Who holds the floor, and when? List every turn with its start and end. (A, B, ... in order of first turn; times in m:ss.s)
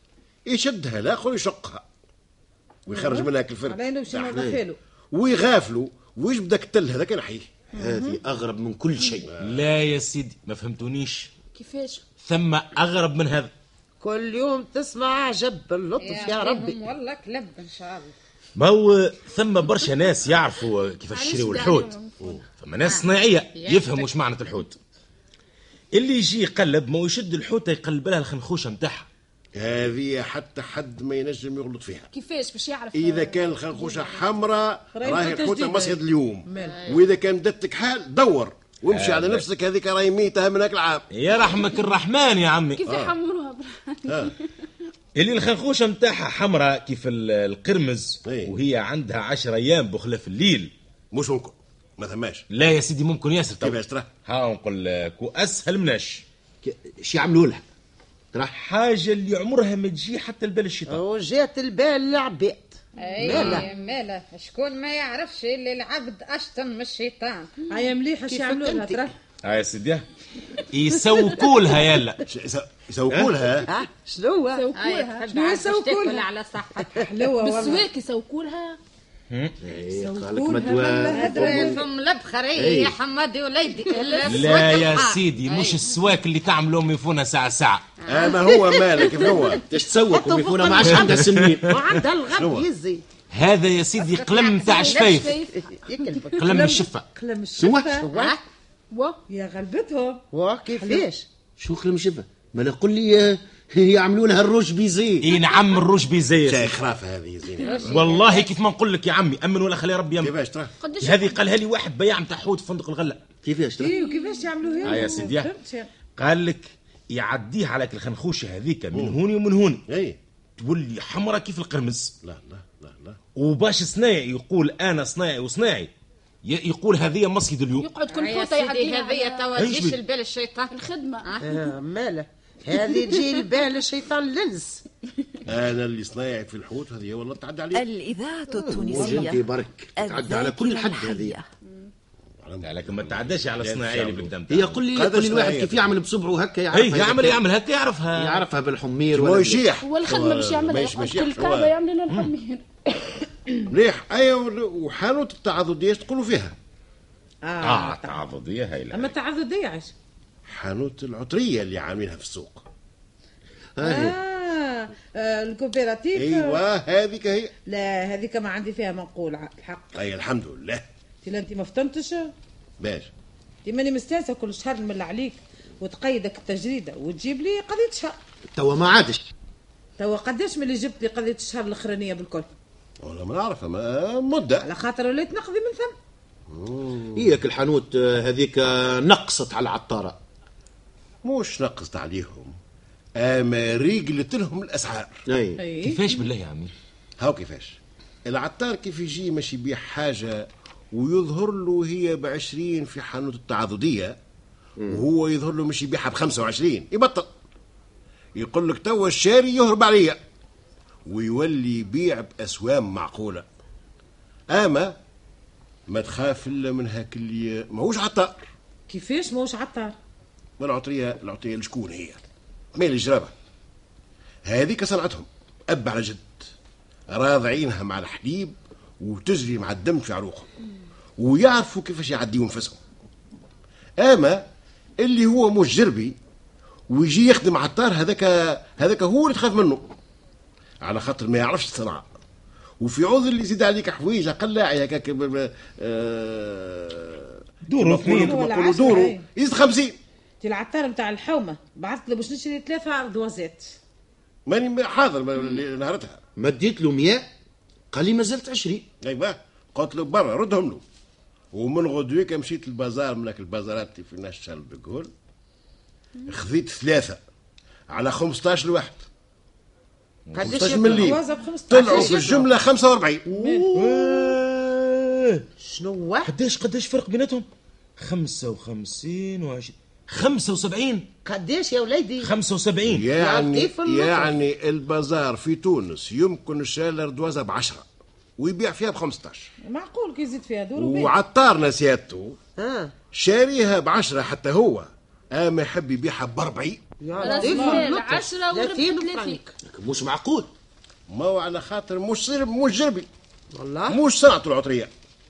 0:00.5-0:01.8 A
0:02.9-0:04.6 A
0:02.9-0:04.8 B
0:05.1-0:07.5 A
0:07.7-0:08.2 B
0:07.8-0:09.3 C
0:09.3-0:09.6 A
0:09.4-0:11.3 D
0:11.5-0:12.1 E
0:12.2-0:13.5 D
0:14.0-0:16.8 F
0:16.0-0:18.2 G
0:18.6-0:21.9 D
0:21.1-0:22.1 E
0:22.6-0:24.8 D
0:22.8-0:24.1 G
0:25.9-0:29.1 D
0:29.6-0:32.1 A
0:32.1-0:34.3 E
0:32.9-0:41.1 A
0:35.0-0:36.8 B
0:36.6-0:37.1 G
0:38.9-0:39.4 D
0:41.1-0:42.9 D
0:42.8-0:44.5 E
0:42.8-0:43.1 A
0:44.1-0:44.3 A
0:45.2-0:50.7 D
0:48.2-0:48.5 A
0:51.1-0:52.5 A
0:52.5-0:56.2 D
0:53.6-0:54.1 A
0:56.6-0:57.6 C
0:58.5-1:01.0 D
1:00.9-1:03.7 F
1:03.0-1:07.5 G
1:03.2-1:03.6 C
1:07.7-1:09.2 B
1:08.3-1:09.1 F
1:09.4-1:10.1 D
1:10.7-1:12.2 D
1:12.3-1:13.7 A
1:13.7-1:14.7 F
1:14.6-1:15.3 E
1:14.8-1:17.0 G
1:15.3-1:16.3 B
1:17.0-1:17.9 B
1:17.4-1:18.8 E
1:19.3-1:19.6 D
1:19.6-1:21.8 C
1:20.0-1:21.8 B
1:21.1-1:25.8 G
1:22.6-1:23.0 C
1:23.9-1:24.8 E
1:24.2-1:27.9 D
1:28.1-1:29.6 A
1:28.1-1:28.4 G
1:28.7-1:29.1 F
1:29.6-1:31.7 C
1:30.1-1:33.0 F
1:30.9-1:32.0 D
1:32.4-1:32.7 A
1:33.3-1:35.4 D
1:34.0-1:35.3 G
1:34.6-1:36.2 E
1:35.5-1:36.7 F
1:36.3-1:37.1 D
1:36.4-1:38.1 B
1:37.6-1:38.0 C
1:38.0-1:38.4 F
1:38.1-1:38.4 G
1:38.9-1:39.2 E
1:39.3-1:40.2 B
1:40.3-1:41.3 F
1:40.8-1:41.1 B
1:41.6-1:45.3 C
1:45.2-1:46.7 D
1:46.4-1:48.0 A
1:47.6-1:48.5 G
1:47.8-1:48.3 E
1:47.8-1:50.3 D
1:50.2-1:50.7 A
1:50.8-1:51.4 E
1:51.0-1:53.2 D
1:53.4-1:54.0 C
1:53.8-1:55.9 B
1:53.9-1:55.3 E
1:54.8-1:55.5 D
1:56.2-1:59.8 D
1:58.9-1:59.2 A
1:59.9-2:00.2 A
2:00.6-2:02.1 D
2:02.2-2:03.2 A
2:03.4-2:05.9 D
2:06.4-2:07.9 D
2:07.8-2:09.5 E
2:08.1-2:11.6 G
2:09.6-2:10.0 D
2:10.7-2:11.3 E
2:11.4-2:14.8 F
2:15.5-2:17.9 A
2:17.7-2:21.5 H
2:18.5-2:21.4 C
2:22.4-2:24.3 A
2:22.6-2:24.8 D
2:24.5-2:27.4 C
2:24.9-2:25.9 A
2:26.7-2:28.4 D
2:28.2-2:29.7 C
2:29.1-2:31.7 A
2:29.8-2:32.6 E
2:33.7-2:36.6 A
2:37.5-2:38.2 B
2:37.6-2:39.1 D
2:38.9-2:39.9 B
2:40.5-2:42.7 A
2:43.8-2:44.2 C
2:43.8-2:46.6 B
2:46.2-2:47.5 A
2:47.7-2:50.0 B
2:49.9-2:50.8 A
2:51.2-2:52.3 B
2:52.8-2:53.1 A
2:53.6-2:58.2 B
2:58.5-2:59.3 C
3:00.0-3:02.5 B
3:03.0-3:04.7 A
3:04.6-3:05.9 B
3:06.5-3:07.3 A
3:07.2-3:10.2 C
3:11.2-3:12.6 A
3:13.2-3:15.2 A
3:15.3-3:15.6 C
3:15.6-3:16.1 B
3:15.8-3:16.7 D
3:17.2-3:24.2 A
3:24.9-3:27.3 A
3:28.4-3:30.2 A
3:31.1-3:33.4 A
3:34.5-3:35.0 A
3:35.9-3:38.5 A
3:38.9-3:40.0 B
3:40.6-3:42.2 A
3:42.8-3:43.3 A
3:44.5-3:46.5 A
3:47.1-3:50.5 A
3:51.2-3:52.8 A
3:54.0-3:54.5 A
3:55.0-3:56.2 A
3:56.9-3:59.9 A
4:00.8-4:02.1 A
4:02.8-4:10.0 A
4:07.7-4:08.4 D
4:08.0-4:09.3 B
4:10.4-4:13.8 B
4:14.5-4:16.2 A
4:16.4-4:17.3 C
4:17.9-4:18.9 C
4:19.0-4:20.8 A
4:21.5-4:25.1 A
4:26.3-4:27.2 A
4:27.9-4:29.1 A
4:30.3-4:30.9 D
4:30.3-4:33.3 A
4:30.4-4:31.2 F
4:30.8-4:32.4 B
4:33.3-4:33.7 B
4:33.7-4:35.4 D
4:35.6-4:36.4 F
4:36.3-4:37.4 D
4:38.0-4:41.1 D
4:41.2-4:42.3 F
4:42.2-4:43.1 D
4:42.8-4:47.9 A
4:43.1-4:44.3 F
4:48.4-4:49.5 A
4:49.6-4:51.2 B
4:50.8-4:52.4 A
4:52.6-4:52.9 F
4:53.1-4:56.8 A
4:57.0-4:59.5 F
4:57.2-4:59.4 E
4:57.2-4:57.9 B
4:59.7-5:00.5 C
5:01.1-5:03.1 A
5:03.6-5:04.0 F
5:03.9-5:04.9 A